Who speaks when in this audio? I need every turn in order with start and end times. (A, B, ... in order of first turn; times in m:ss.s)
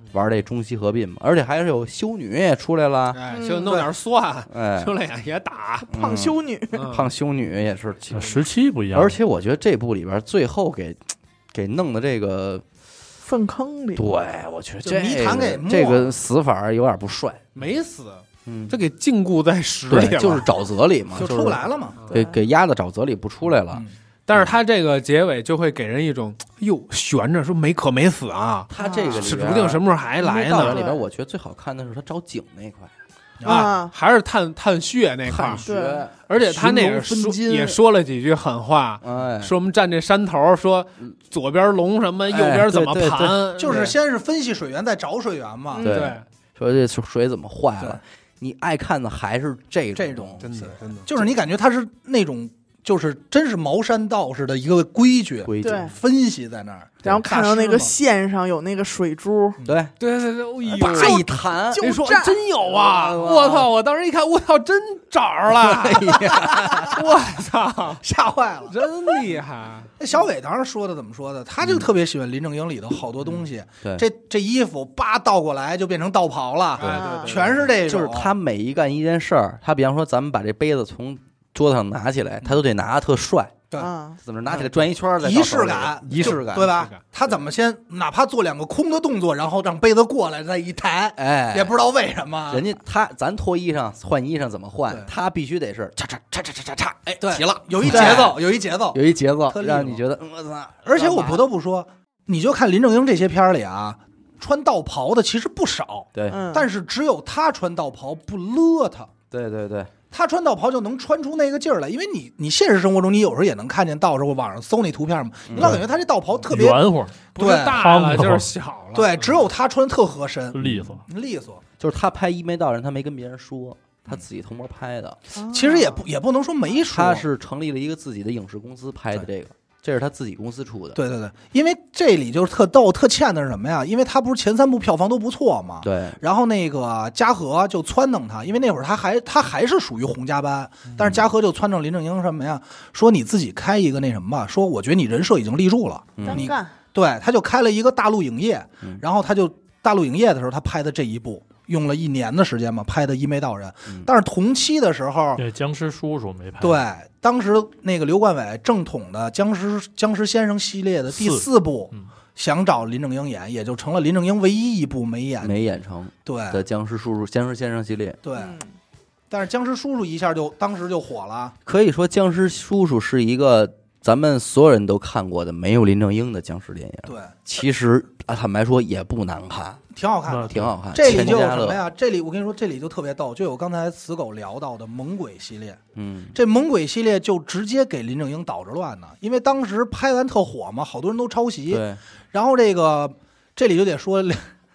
0:00.1-0:03.2 A
0:03.1-0:05.9 B
0:03.3-0:03.7 C
0:04.5-0:04.9 A
0:05.9-0:06.9 C
0:05.9-0:08.4 A
0:06.7-0:07.1 B
0:08.1-0:09.1 D
0:08.9-0:12.6 A
0:13.2-0:14.1 C
0:14.0-0:17.5 A
0:14.8-0:16.1 E
0:17.6-0:20.5 B
0:18.4-0:18.8 A
0:19.9-0:24.5 A
0:21.1-0:22.0 E
0:24.3-0:30.8 B
0:28.7-0:32.9 A
0:28.8-0:29.3 C
0:30.6-0:31.0 C
0:33.4-0:33.7 E
0:33.4-0:33.9 C
0:33.4-0:35.6 B
0:35.2-0:37.8 A
0:35.6-0:36.0 C
0:36.3-0:44.0 B
0:39.0-0:39.5 A
0:42.3-0:43.5 A
0:43.6-0:45.9 E
0:45.7-0:46.2 C
0:45.8-0:50.5 A
0:45.8-0:46.2 B
0:50.0-0:57.9 E
0:50.4-0:51.3 B
0:55.4-0:55.9 A
0:55.6-0:55.9 C
0:57.0-0:59.6 C
0:59.6-0:59.9 A
1:00.0-1:08.0 B
1:00.7-1:01.9 A
1:00.8-1:02.4 C
1:02.7-1:03.7 A
1:05.5-1:07.0 A
1:08.0-1:08.7 E
1:08.6-1:09.9 B
1:10.0-1:18.3 E
1:11.6-1:11.9 A
1:16.8-1:17.7 B
1:16.9-1:17.4 C
1:17.8-1:23.6 A
1:23.8-1:24.2 C
1:24.2-1:26.7 A
1:25.2-1:32.6 E
1:26.1-1:27.0 B
1:31.2-1:31.7 A
1:32.5-1:41.4 A
1:37.2-1:40.0 E
1:37.9-1:38.2 C
1:40.8-1:49.1 E
1:46.1-1:46.4 A
1:46.3-1:46.7 C
1:49.3-1:49.9 A
1:50.1-1:56.9 E
1:55.5-1:55.8 A
1:56.5-1:58.5 D
1:57.3-1:59.4 B
1:57.4-1:57.8 E
1:58.9-2:01.6 E
2:00.5-2:01.0 D
2:01.8-2:05.2 A
2:05.3-2:06.0 C
2:05.5-2:07.2 E
2:06.9-2:11.0 A
2:10.9-2:35.4 E
2:15.8-2:16.2 A
2:21.0-2:21.3 A
2:26.2-2:26.5 A
2:26.2-2:26.7 C
2:35.4-2:36.8 D
2:36.6-2:45.6 E
2:41.1-2:42.1 D
2:45.4-2:48.2 A
2:46.2-2:46.6 E
2:48.2-2:48.6 E
2:48.4-2:48.7 C
2:49.3-2:51.6 E
2:51.6-2:59.8 A
2:57.1-2:57.3 E
2:59.9-3:05.8 E
3:00.3-3:00.6 D
3:00.5-3:01.8 A
3:05.9-3:06.4 A
3:06.3-3:14.4 E
3:11.7-3:12.0 A